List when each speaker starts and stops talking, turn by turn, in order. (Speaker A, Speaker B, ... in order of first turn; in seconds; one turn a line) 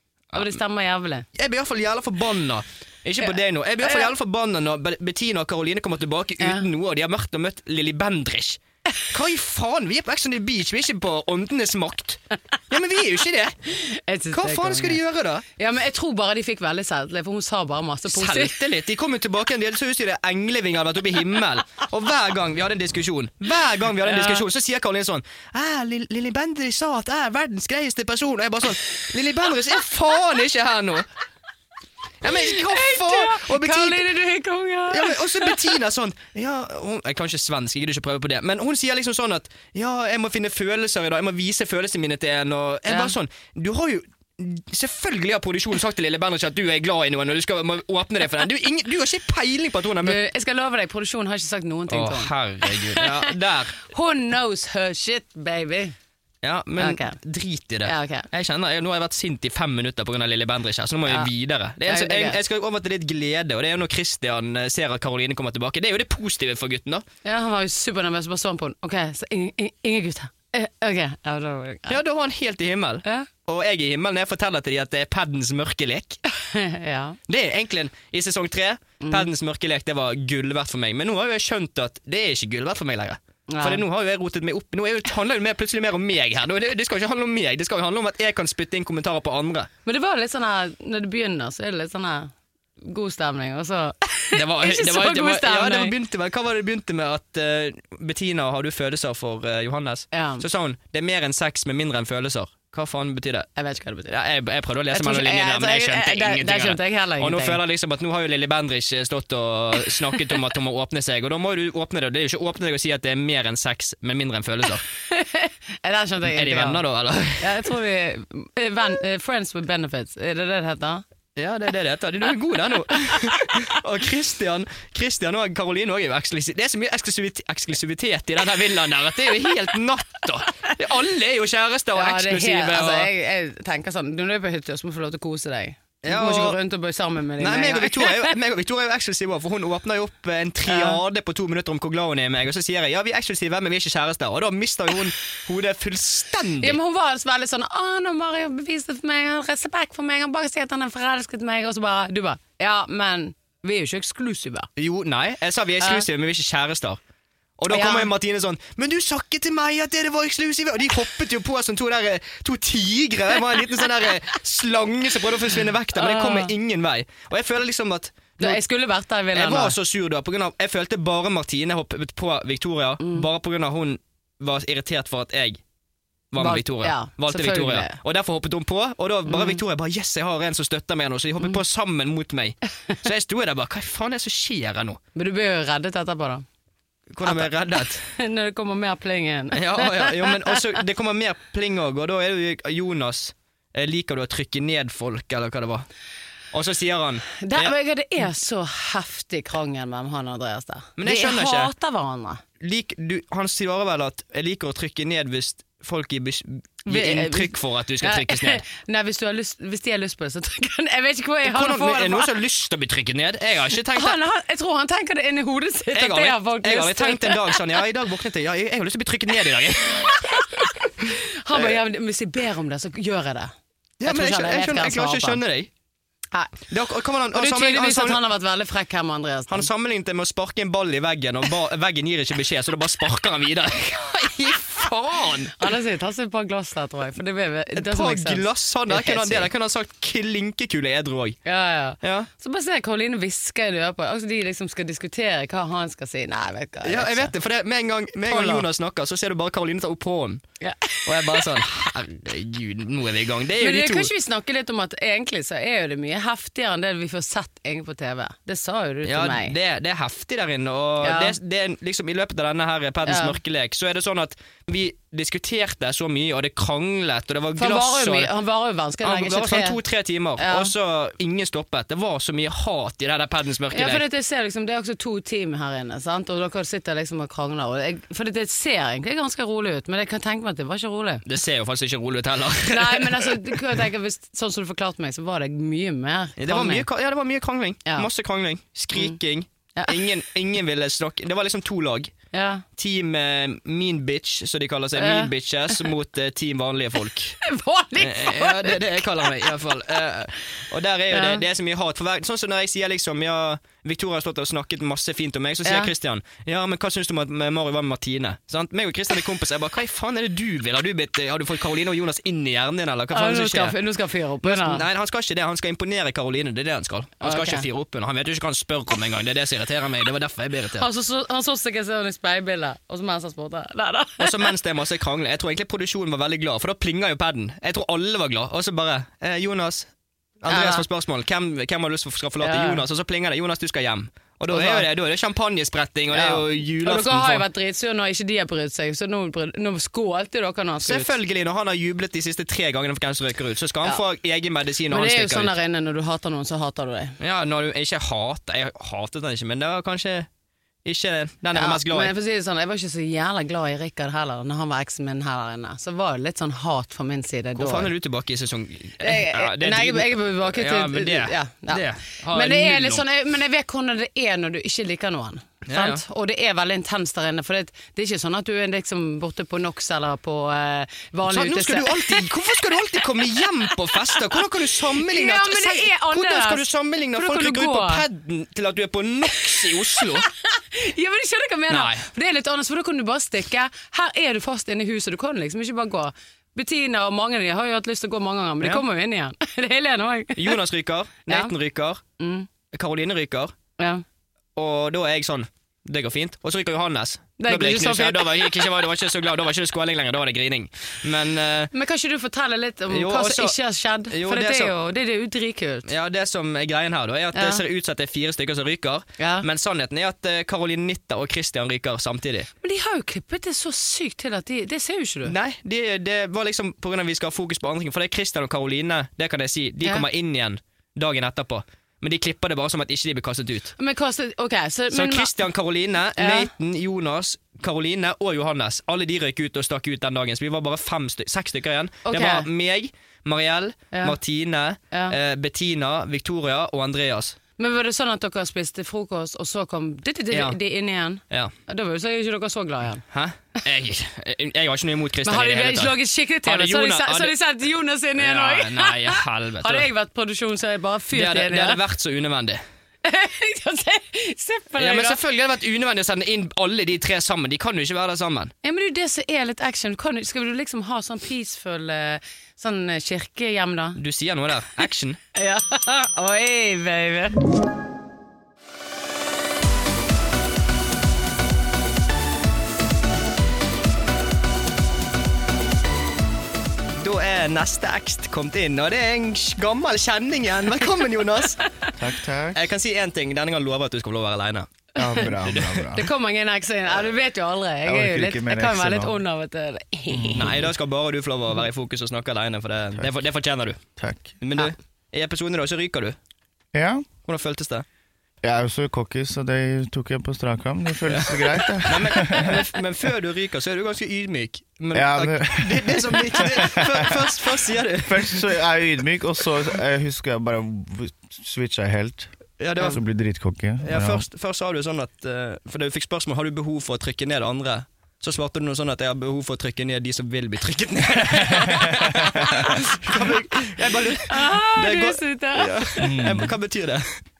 Speaker A: 0.3-1.2
Speaker B: 1.4-13.6
Speaker A: 3.8-4.1
Speaker A: 6.4-6.7
Speaker A: 13.7-15.0
Speaker B: 14.3-15.4
Speaker A: 15.6-18.6
Speaker B: 18.1-31.1
Speaker A: 24.0-24.4
Speaker B: 32.2-34.1
Speaker A: 32.3-35.6
Speaker B: 34.9-50.2
Speaker A: 42.9-43.1
Speaker A: 50.0-55.9
Speaker B: 51.9-53.8
Speaker B: 56.4-67.0
Speaker A: 56.8-57.2
Speaker A: 57.8-58.3
Speaker A: 61.9-62.4
Speaker A: 67.2-72.0
Speaker B: 71.9-76.2
Speaker A: 76.4-77.2
Speaker B: 77.3-89.7
Speaker A: 79.0-79.3
Speaker A: 83.5-83.8
Speaker A: 89.8-95.9
Speaker B: 94.3-103.5
Speaker A: 100.1-100.4
Speaker A: 103.6-104.2
Speaker B: 104.1-114.8
Speaker A: 104.9-107.6
Speaker A: 115.1-116.8
Speaker B: 116.3-117.7
Speaker A: 117.4-121.0
Speaker B: 121.3-133.1
Speaker A: 131.9-138.3
Speaker B: 136.0-136.6
Speaker B: 137.4-146.8
Speaker A: 140.7-141.0
Speaker A: 146.6-154.7
Speaker B: 154.8-157.0
Speaker A: 155.8-156.1
Speaker B: 157.6-168.6
Speaker A: 157.7-158.1
Speaker A: 165.9-166.5
Speaker A: 168.4-169.7
Speaker B: 169.3-175.6
Speaker A: 173.0-173.3
Speaker B: 176.3-185.0
Speaker A: 176.4-178.0
Speaker A: 179.3-179.6
Speaker A: 185.2-186.4
Speaker B: 187.1-188.1
Speaker A: 187.2-190.6
Speaker B: 189.5-195.9
Speaker B: 196.5-197.7
Speaker A: 197.4-202.4
Speaker B: 201.0-201.7
Speaker B: 202.6-208.6
Speaker A: 206.8-212.3
Speaker B: 211.4-214.2
Speaker A: 213.9-217.7
Speaker B: 215.9-220.4
Speaker A: 220.1-223.5
Speaker B: 224.0-225.7
Speaker A: 224.1-225.4
Speaker A: 226.3-226.7
Speaker B: 226.7-228.2
Speaker A: 227.3-229.7
Speaker B: 229.5-235.6
Speaker A: 235.6-239.5
Speaker B: 237.7-241.4
Speaker A: 241.4-247.3
Speaker B: 242.0-242.3
Speaker B: 246.8-250.4
Speaker A: 248.3-248.7
Speaker A: 250.6-251.6
Speaker B: 251.1-254.1
Speaker A: 253.6-259.6
Speaker B: 259.1-268.3
Speaker A: 261.0-261.3
Speaker A: 263.1-263.4
Speaker A: 267.6-269.8
Speaker B: 269.0-274.0
Speaker A: 270.4-270.7
Speaker A: 273.7-281.2
Speaker B: 281.2-283.6
Speaker A: 282.7-286.9
Speaker B: 286.4-292.1
Speaker A: 289.8-290.0
Speaker A: 292.3-292.6
Speaker B: 292.8-297.4
Speaker A: 294.9-295.8
Speaker A: 297.4-299.6
Speaker B: 298.0-313.7
Speaker A: 301.1-301.4
Speaker A: 305.6-305.9
Speaker A: 313.1-314.8
Speaker B: 314.4-320.9
Speaker A: 317.2-317.7
Speaker A: 320.8-324.5
Speaker B: 324.2-329.9
Speaker B: 330.4-337.4
Speaker A: 330.5-330.8
Speaker A: 332.4-332.8
Speaker A: 334.5-334.9
Speaker A: 336.1-341.1
Speaker B: 340.8-345.5
Speaker A: 344.9-347.2
Speaker B: 347.2-350.3
Speaker B: 350.8-352.1
Speaker A: 351.5-357.9
Speaker B: 357.6-363.1
Speaker A: 359.0-372.3
Speaker B: 365.7-366.0
Speaker B: 371.3-380.3
Speaker A: 373.7-374.4
Speaker A: 374.9-378.1
Speaker A: 379.4-390.6
Speaker B: 381.7-382.0
Speaker B: 390.4-392.0
Speaker A: 391.3-391.5
Speaker A: 392.2-392.5
Speaker B: 392.7-393.5
Speaker A: 393.8-394.0
Speaker B: 394.6-401.7
Speaker A: 397.4-398.6
Speaker A: 401.7-405.9
Speaker B: 402.9-403.6
Speaker B: 404.1-404.7
Speaker B: 405.9-412.5
Speaker A: 407.3-407.6
Speaker A: 409.2-409.4
Speaker A: 412.6-415.3
Speaker B: 415.2-423.7
Speaker A: 423.8-425.3
Speaker B: 424.9-437.4
Speaker A: 426.2-426.5
Speaker A: 432.1-432.5
Speaker A: 433.9-434.2
Speaker A: 434.9-435.2
Speaker A: 437.6-443.0
Speaker B: 440.3-440.6
Speaker B: 443.1-447.3
Speaker A: 445.2-451.8
Speaker B: 448.2-449.9
Speaker B: 451.1-452.6
Speaker A: 453.0-455.2
Speaker B: 454.8-458.5
Speaker A: 458.6-464.0
Speaker B: 464.0-465.2
Speaker A: 465.4-467.4
Speaker B: 477.0-481.6
Speaker C: 481.9-482.6
Speaker B: 482.5-484.7
Speaker C: 485.0-486.1
Speaker B: 485.3-485.9
Speaker A: 485.9-490.6
Speaker C: 487.8-489.2
Speaker C: 490.1-490.7
Speaker B: 490.3-493.8
Speaker C: 494.0-494.4
Speaker B: 494.4-496.2
Speaker C: 496.7-497.1
Speaker B: 497.2-497.8
Speaker C: 498.4-502.6
Speaker B: 501.1-508.4
Speaker C: 504.9-507.3
Speaker C: 508.0-512.3
Speaker B: 512.6-513.0
Speaker C: 512.9-514.2
Speaker B: 513.8-527.1
Speaker C: 521.6-522.5
Speaker A: 524.3-526.4
Speaker C: 526.0-526.5